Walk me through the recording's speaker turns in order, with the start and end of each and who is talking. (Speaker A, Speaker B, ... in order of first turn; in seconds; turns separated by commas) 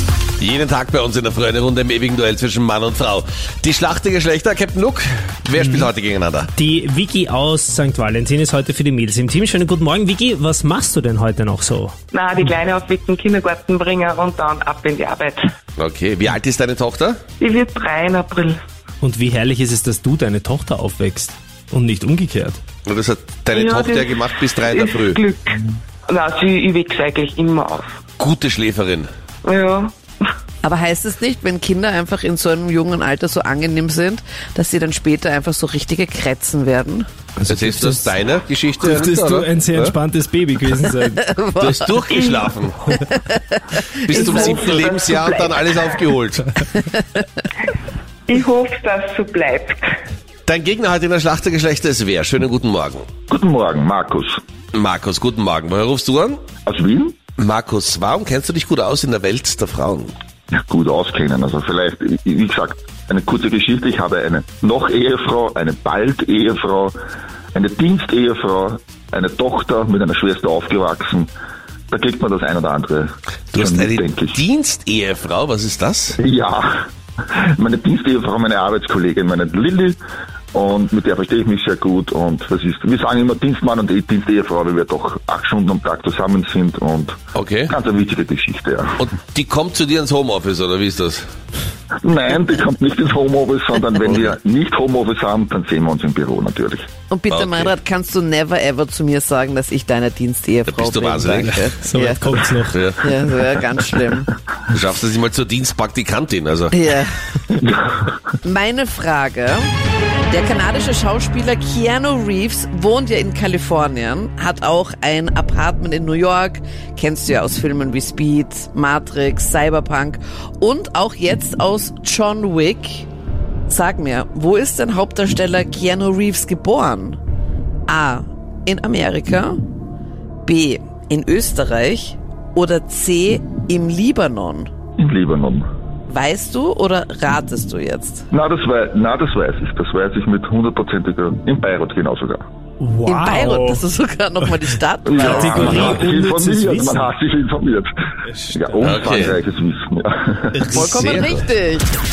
Speaker A: 0.4-6.5, Speaker B: 5.6-5.9, Speaker B: 6.5-11.9, Speaker C: 12.1-15.4, Speaker A: 15.8-17.2, Speaker C: 17.4-18.6, Speaker B: 19.0-22.6, Speaker A: 22.9-25.2, Speaker C: 23.5-27.9, Speaker A: 28.2-29.1, Speaker C: 29.4-29.9, Speaker D: 30.6-37.1, Speaker B: 37.4-38.1, Speaker A: 37.5-39.9, Speaker B: 38.8-41.3, Speaker D: 41.2-41.9, Speaker A: 41.6-42.9, Speaker C: 42.1-42.5, Speaker D: 42.9-44.5, Speaker A: 44.0-46.6, Speaker C: 44.1-45.7, Speaker C: 48.3-50.0, Speaker A: 50.5-53.1, Speaker E: 53.3-54.4, Speaker A: 54.7-56.4, Speaker E: 56.6-57.2, Speaker A: 57.4-60.1, Speaker E: 60.5-67.0, Speaker E: 67.5-71.3, Speaker E: 71.9-74.4, Speaker A: 73.5-76.2, Speaker E: 76.2-80.0, Speaker E: 80.5-89.0, Speaker A: 87.3-87.7, Speaker A: 89.0-91.2, Speaker E: 92.0-96.8, Speaker A: 94.1-94.3, Speaker D: 97.1-102.4, Speaker A: 97.3-97.7, Speaker A: 100.7-101.7, Speaker B: 101.4-102.8, Speaker A: 102.7-103.0, Speaker D: 103.0-104.3, Speaker A: 104.7-106.7, Speaker D: 106.7-107.6, Speaker E: 107.6-108.1, Speaker D: 108.4-109.7, Speaker D: 110.3-123.1, Speaker D: 123.7-127.2, Speaker D: 127.9-129.6, Speaker D: 130.4-134.7, Speaker E: 135.0-135.7, Speaker D: 136.1-138.2, Speaker E: 138.3-142.4, Speaker B: 142.8-143.8, Speaker D: 143.1-146.1, Speaker E: 145.1-147.9, Speaker B: 145.2-147.1, Speaker B: 148.2-149.3, Speaker E: 148.5-150.7, Speaker A: 148.8-149.3, Speaker B: 150.5-151.2, Speaker D: 150.7-151.9, Speaker A: 150.7-151.4